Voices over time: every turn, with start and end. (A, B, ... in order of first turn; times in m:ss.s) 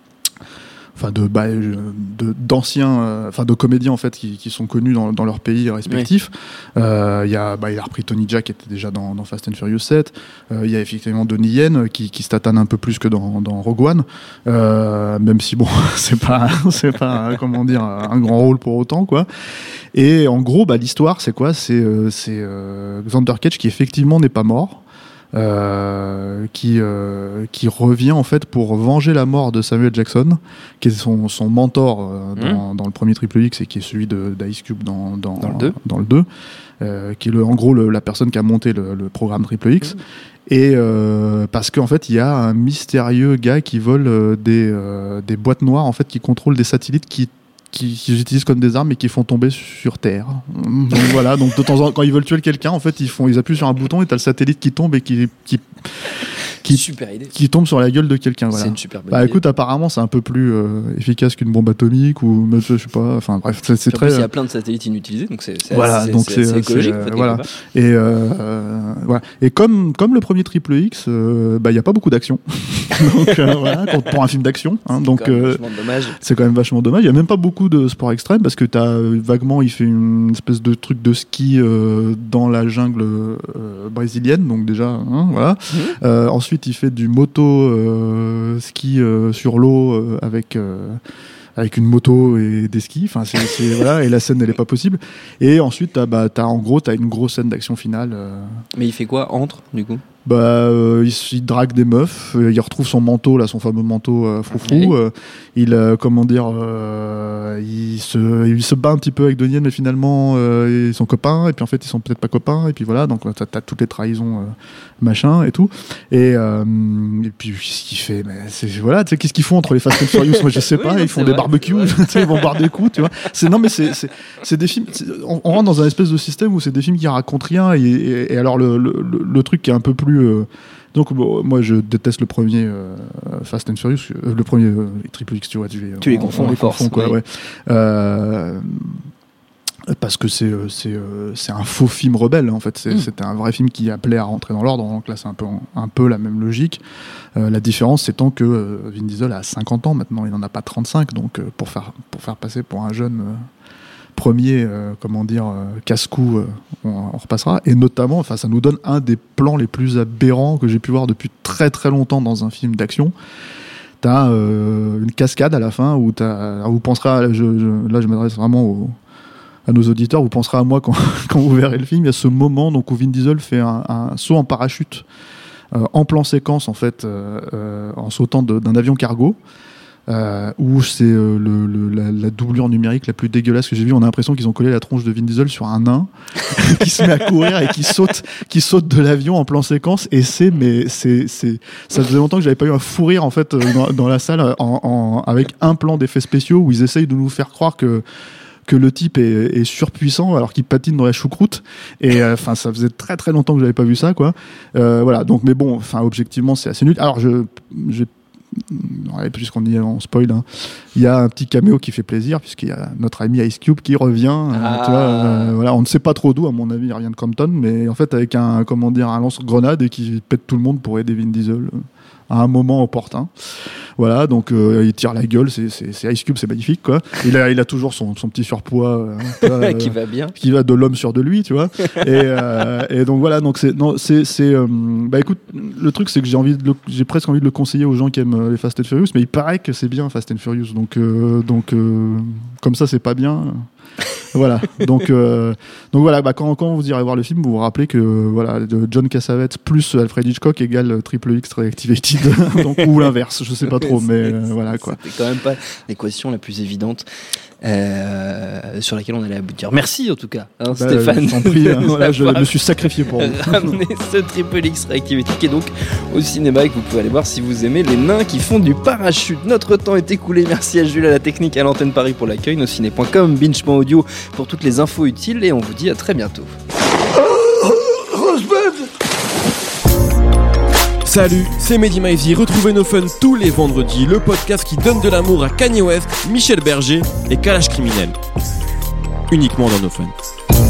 0:01.0-0:19.3 A
0:19.9-0:24.8 A
0:25.3-0:36.2 A
0:32.4-0:32.6 B
0:35.4-0:35.8 B
0:36.8-0:56.1 A
0:56.6-1:04.3 A
0:56.6-0:57.3 B
0:58.5-0:59.4 B
1:03.9-1:07.5 B
1:05.7-1:15.6 A
1:15.1-1:16.2 B
1:16.2-1:31.0 A
1:25.7-1:26.0 B
1:31.6-1:38.5 A
1:38.7-1:40.0 B
1:40.2-2:19.0 A
1:44.5-1:45.0 B
2:00.2-2:02.6 B
2:16.0-2:17.2 B
2:19.9-2:26.8 A
2:27.4-2:33.5 A
2:34.2-2:43.1 A
2:44.0-2:48.9 A
2:49.7-2:55.0 A
2:55.7-2:59.4 A
3:00.1-3:18.0 A
3:18.7-3:41.7 A
3:34.5-3:35.6 B
3:42.3-3:43.3 A
3:44.0-4:03.6 A
3:49.4-3:50.3 B
4:04.3-4:15.0 A
4:13.7-4:17.0 B
4:17.6-4:36.5 B
4:20.7-4:23.8 A
4:37.6-4:38.6 C
4:41.0-4:48.2 C
4:49.3-4:50.1 C